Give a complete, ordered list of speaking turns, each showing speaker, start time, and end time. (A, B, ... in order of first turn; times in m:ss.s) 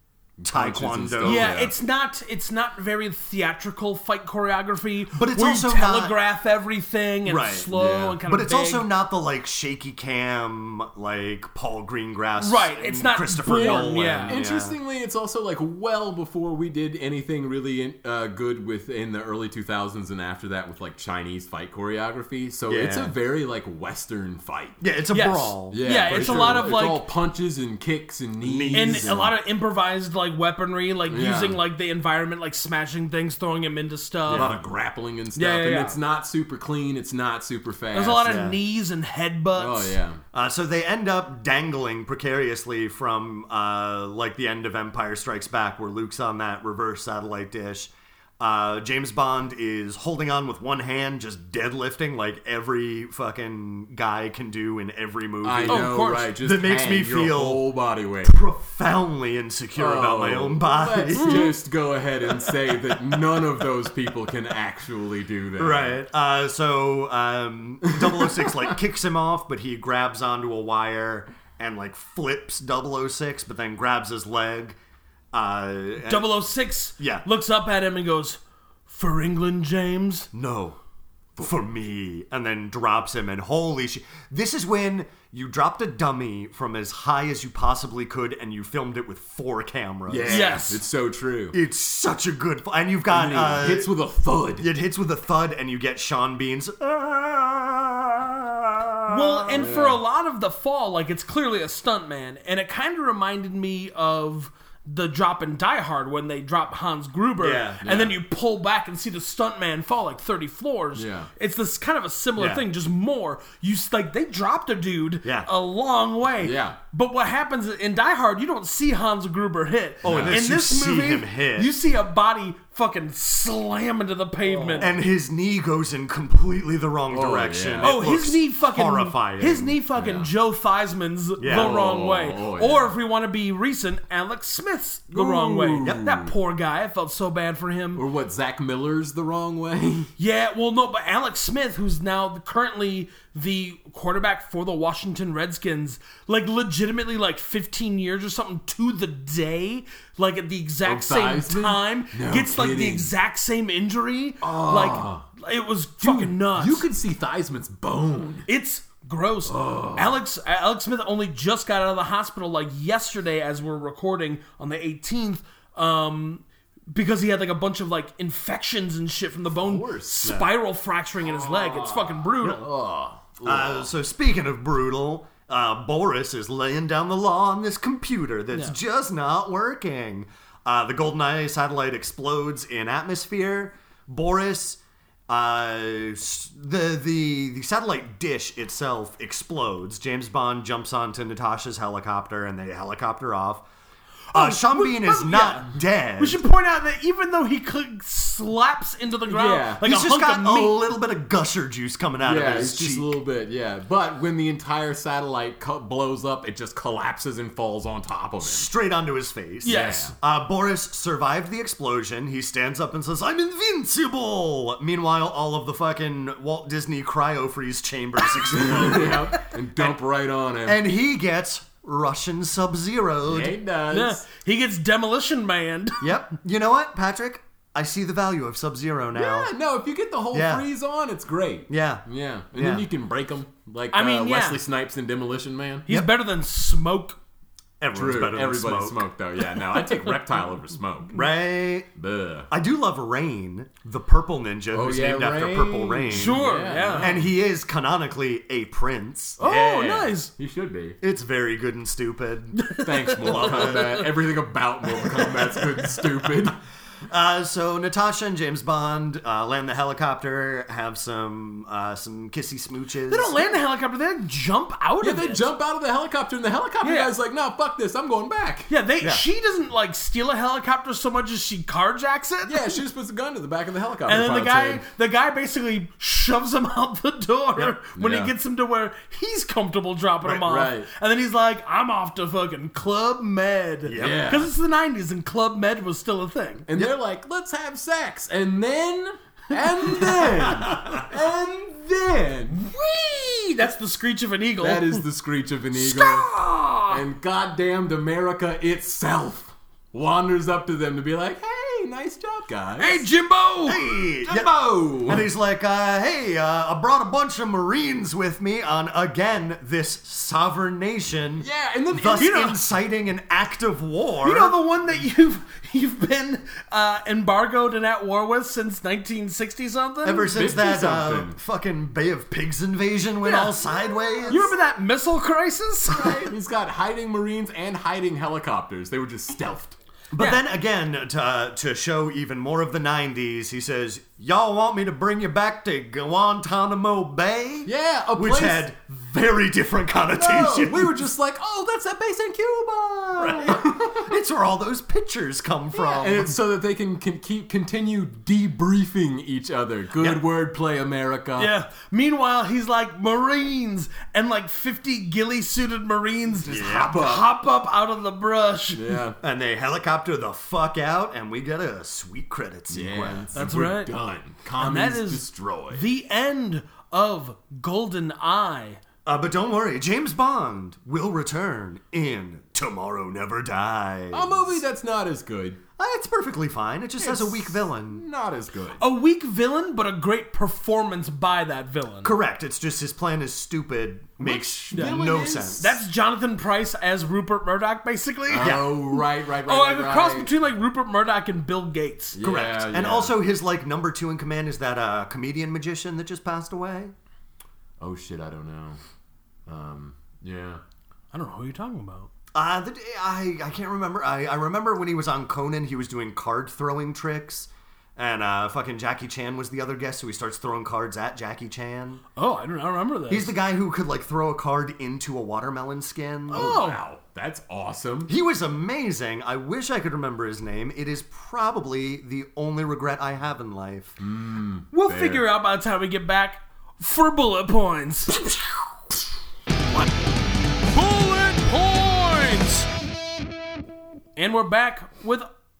0:00.4-0:01.7 A
0:00.4-0:01.5 B
0:01.2-0:08.9 C
0:05.1-0:06.1 B
0:07.2-0:14.8 B
0:07.7-0:08.2 A
0:12.4-0:14.4 C
0:13.4-0:24.8 A
0:22.7-0:23.1 B
0:24.8-0:26.8 B
0:25.1-0:27.0 C
0:25.7-0:29.3 A
0:28.4-0:29.3 B
0:28.7-0:34.5 C
0:31.1-0:31.6 A
0:34.3-0:34.6 B
0:34.3-0:38.2 A
0:35.3-0:36.0 C
0:37.9-0:39.9 C
0:38.2-0:38.6 B
0:39.6-0:40.2 A
0:40.3-0:57.6 B
0:55.4-0:58.4 A
0:55.7-0:56.3 C
0:58.2-1:01.6 B
0:59.8-1:06.0 A
1:01.2-1:01.5 C
1:02.4-1:02.9 B
1:05.6-1:14.8 B
1:15.3-1:16.3 B
1:16.0-1:20.3 C
1:17.0-1:17.2 B
1:20.3-1:20.8 B
1:21.4-1:30.7 B
1:30.1-1:31.6 A
1:30.3-1:30.8 C
1:31.5-1:33.9 B
1:33.1-1:34.7 A
1:34.6-1:39.7 B
1:39.1-2:04.9 C
1:39.5-1:40.0 A
1:47.4-1:47.9 B
1:47.8-1:48.2 A
1:51.0-1:51.3 A
1:52.4-1:52.6 B
1:55.2-1:55.5 B
1:56.4-1:56.8 A
2:00.0-2:01.7 B
2:00.0-2:00.4 A
2:04.5-2:04.9 A
2:04.8-2:09.8 B
2:07.1-2:08.0 A
2:07.8-2:18.0 C
2:09.9-2:10.3 A
2:11.4-2:11.8 B
2:11.5-2:12.9 A
2:15.1-2:16.3 A
2:17.9-2:20.1 A
2:20.2-2:36.8 C
2:30.8-2:33.1 A
2:34.4-2:35.2 A
2:36.0-2:38.5 A
2:38.5-2:52.7 C
2:39.5-2:40.2 A
2:49.5-2:50.4 A
2:51.3-2:53.9 A
2:53.4-3:13.6 B
3:14.3-3:20.8 C
3:14.3-3:16.4 B
3:19.3-3:19.8 A
3:19.8-3:23.2 B
3:22.2-3:28.7 A
3:28.4-3:40.0 B
3:29.6-3:30.1 C
3:29.6-3:30.1 A
3:38.5-3:40.8 A
3:40.6-3:43.6 B
3:43.3-3:44.2 A
3:43.9-3:46.0 C
3:46.0-3:49.5 B
3:49.1-3:55.9 A
3:50.3-3:50.6 B
3:51.7-3:52.8 B
3:53.9-3:54.6 C
3:55.9-3:57.2 C
3:57.8-3:59.0 B
3:57.9-4:01.2 A
4:01.1-4:01.9 B
4:02.0-4:02.5 A
4:02.5-4:06.4 B
4:04.7-4:07.3 A
4:06.1-4:07.1 C
4:07.0-4:09.4 B
4:09.4-4:10.3 C
4:09.4-4:11.0 A
4:11.0-4:12.6 B
4:12.6-4:14.1 C
4:12.7-4:16.6 A
4:13.2-4:14.1 B
4:15.0-4:16.3 B
4:17.1-4:23.3 B
4:23.1-4:25.4 C
4:25.0-4:28.7 A
4:26.8-4:27.1 C
4:28.7-4:32.8 C
4:32.4-4:34.8 A
4:34.1-4:46.7 C
4:38.0-4:38.3 A
4:40.4-4:40.9 A
4:43.8-4:44.3 B
4:44.0-4:44.5 A
4:46.7-4:52.6 A
4:50.0-4:51.0 B
4:52.5-4:55.0 C
4:54.6-4:56.3 A
4:55.7-4:57.0 C
4:56.9-5:03.1 A
5:02.8-5:03.8 C
5:03.6-5:04.5 B
5:04.2-5:05.3 A
5:05.0-5:14.5 B
5:11.4-5:12.4 A
5:12.2-5:12.6 C
5:14.2-5:20.4 C
5:20.0-5:24.5 B
5:20.3-5:21.4 A
5:23.2-5:23.5 C
5:24.3-5:26.3 C
5:25.9-5:29.8 A
5:30.1-5:41.0 B
5:30.2-5:30.4 C
5:37.6-5:38.6 A
5:40.1-5:44.1 A
5:43.2-5:46.4 B
5:45.7-5:51.5 A
5:51.4-5:59.0 C
5:56.4-5:57.0 B
5:56.5-5:57.2 A
5:58.7-5:59.2 A
5:59.2-6:03.4 B
6:02.7-6:05.8 A
6:03.3-6:03.9 C
6:04.6-6:08.8 C
6:09.0-6:14.6 B
6:14.1-6:15.6 A
6:15.8-6:18.0 B
6:17.0-6:18.8 A
6:18.8-6:22.1 C
6:22.0-6:25.8 B
6:24.2-6:25.8 A
6:24.7-6:25.0 C
6:25.6-6:32.2 C
6:28.3-6:30.3 A
6:28.4-6:28.7 B
6:32.1-6:33.2 A
6:32.2-6:36.9 B
6:37.8-6:38.8 A
6:39.5-6:40.6 A
6:41.1-6:42.1 C
6:42.3-6:52.0 B
6:52.2-6:53.3 C
6:53.1-6:56.6 B
6:56.3-6:58.1 A
6:56.3-6:56.8 C
6:58.1-7:04.0 B
7:04.0-7:05.2 A
7:04.7-7:08.2 C
7:10.7-7:12.7 C
7:14.2-7:15.3 C